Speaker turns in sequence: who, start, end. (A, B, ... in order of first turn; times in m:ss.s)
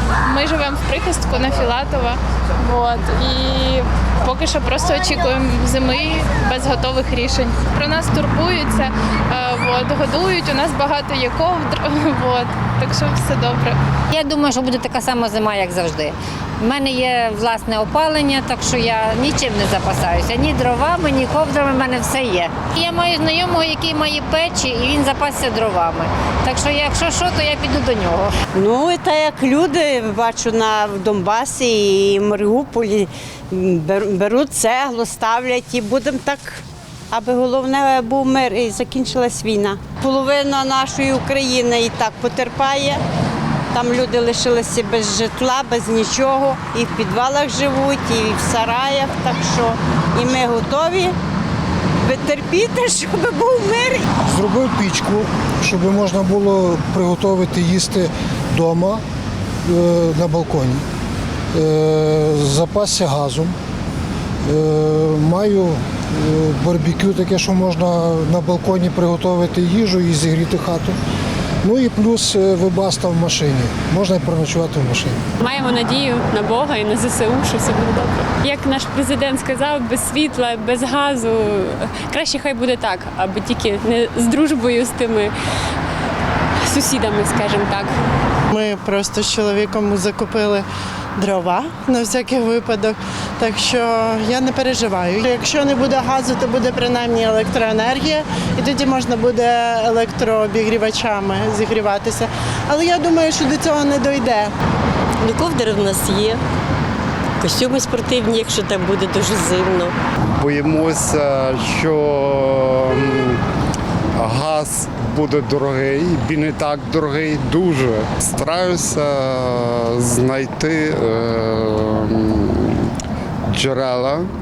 0:00.2-0:13.8 A
0:14.1-0:28.3 B
0:28.5-0:43.0 C
0:43.7-0:51.1 C
0:52.0-0:54.1 C
0:54.2-0:59.0 D
0:59.6-1:00.8 D
1:01.5-1:03.6 D
1:04.4-1:11.0 D
1:11.6-1:15.2 D
1:15.4-1:25.3 E
1:26.7-1:27.9 E
1:28.5-1:30.6 F
1:31.2-1:44.5 F
1:45.2-1:46.4 G
1:47.4-1:49.9 G
1:50.4-1:53.4 H
1:54.2-2:02.8 H
2:03.5-2:04.3 H